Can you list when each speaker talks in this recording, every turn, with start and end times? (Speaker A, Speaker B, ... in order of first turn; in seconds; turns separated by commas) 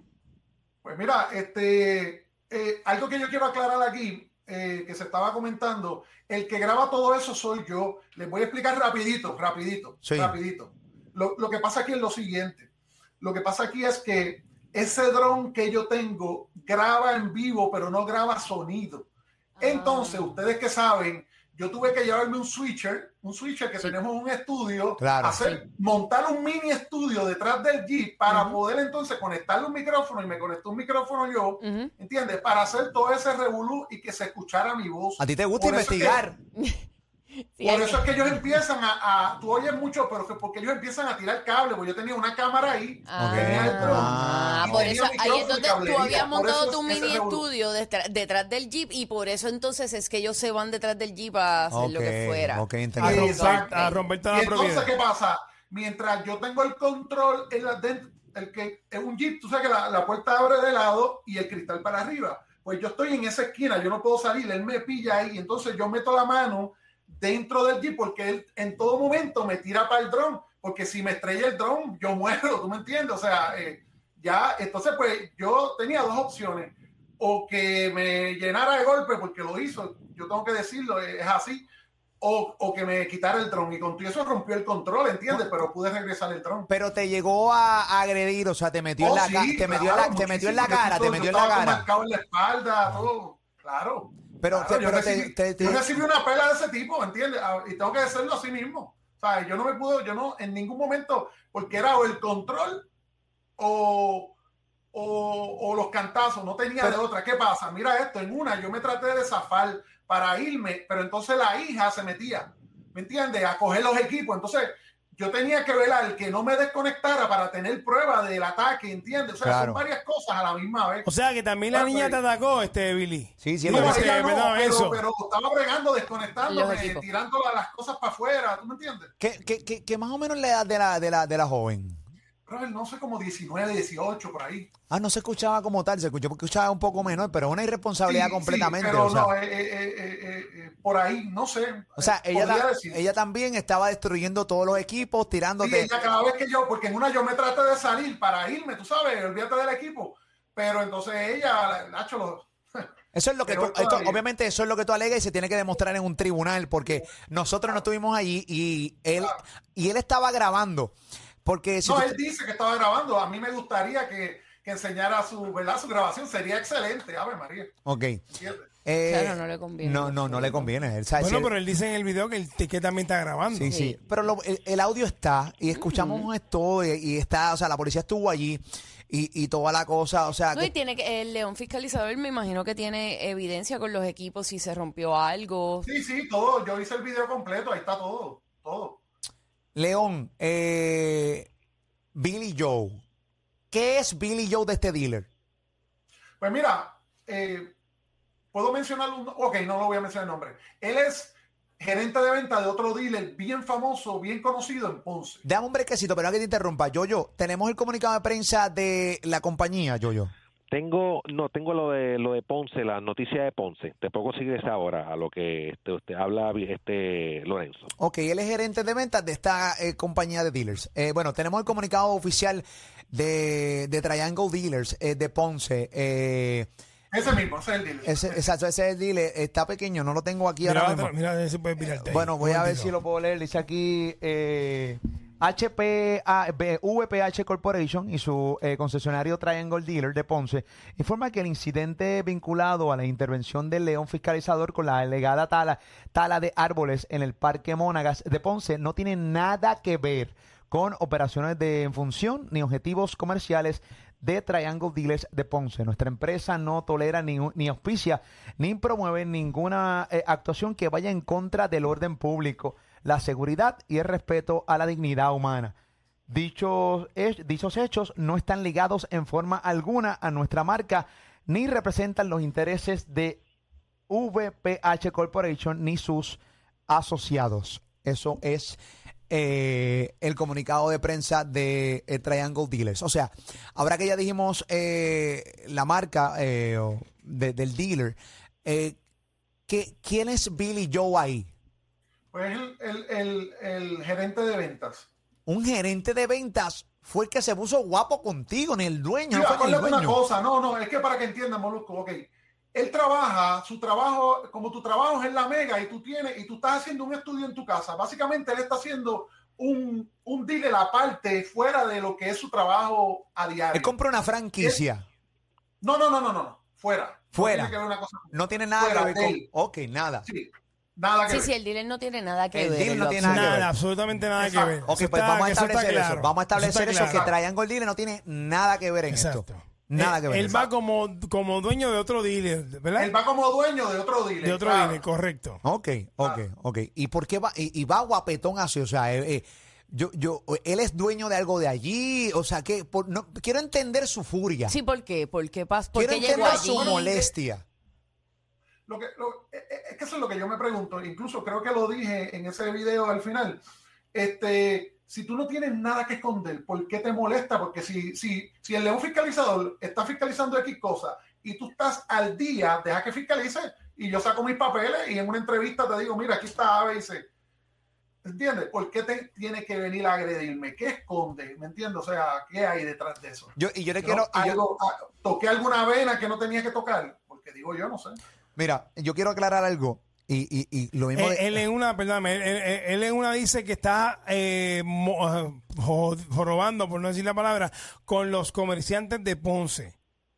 Speaker A: 0.8-12.7, Speaker B: 10.0-10.4, Speaker A: 13.2-19.1, Speaker C: 19.6-20.4, Speaker A: 19.6-36.2, Speaker B: 25.0-25.4, Speaker C: 28.3-28.6, Speaker C: 31.6-31.9, Speaker B: 35.2-36.4, Speaker C: 36.5-36.9, Speaker C: 37.5-38.1, Speaker A: 37.6-47.5, Speaker C: 43.1-54.0, Speaker B: 43.2-45.0, Speaker B: 51.7-53.4, Speaker D: 53.0-54.9, Speaker A: 53.0-81.7, Speaker A: 82.2-86.7, Speaker B: 86.7-91.9, Speaker A: 89.0-102.9, Speaker B: 94.4-96.0, Speaker A: 103.6-104.3, Speaker A: 104.9-121.1, Speaker B: 119.4-119.8, Speaker D: 121.0-125.0, Speaker A: 121.7-122.2, Speaker B: 123.4-124.1, Speaker A: 123.7-129.1, Speaker C: 126.5-127.0, Speaker B: 129.2-132.0, Speaker A: 132.4-134.7, Speaker B: 134.9-139.3, Speaker A: 138.0-143.0, Speaker B: 142.0-145.9, Speaker A: 145.6-152.9, Speaker B: 153.1-160.9, Speaker A: 153.4-154.2, Speaker B: 161.4-162.2, Speaker A: 161.8-167.7, Speaker B: 167.8-168.2, Speaker A: 168.3-168.7, Speaker B: 168.8-171.5, Speaker C: 169.1-170.7, Speaker D: 171.2-173.7, Speaker B: 173.5-180.7, Speaker C: 173.7-173.9, Speaker C: 175.7-176.3, Speaker C: 180.5-185.9, Speaker A: 185.8-189.0, Speaker B: 189.7-191.5, Speaker B: 192.1-193.0, Speaker B: 193.7-195.3, Speaker A: 196.4-197.7, Speaker A: 198.5-205.4, Speaker B: 205.4-210.3, Speaker E: 210.7-217.9, Speaker B: 218.0-226.7, Speaker A: 227.1-228.4, Speaker B: 228.0-231.1, Speaker D: 230.6-232.9, Speaker B: 231.8-265.7, Speaker B: 266.3-273.4, Speaker B: 274.1-289.0, Speaker B: 289.7-291.5, Speaker A: 292.3-295.1, Speaker B: 295.4-300.2, Speaker A: 299.3-313.9, Speaker B: 313.7-315.1, Speaker A: 315.8-319.5, Speaker B: 317.3-317.8, Speaker B: 318.3-320.3, Speaker A: 320.2-321.5, Speaker C: 321.3-323.6, Speaker B: 322.5-323.7, Speaker D: 323.2-327.3, Speaker A: 324.4-324.9, Speaker B: 324.9-330.6, Speaker A: 327.0-327.3, Speaker D: 329.1-333.1, Speaker A: 330.4-330.7, Speaker A: 333.0-335.0, Speaker D: 334.4-335.6, Speaker B: 335.6-344.7, Speaker C: 344.7-347.0, Speaker B: 345.9-347.6, Speaker A: 346.2-347.3, Speaker A: 348.9-353.6, Speaker A: 354.1-367.3, Speaker A: 368.2-378.2, Speaker B: 373.6-374.6, Speaker B: 378.6-381.6, Speaker D: 381.1-389.9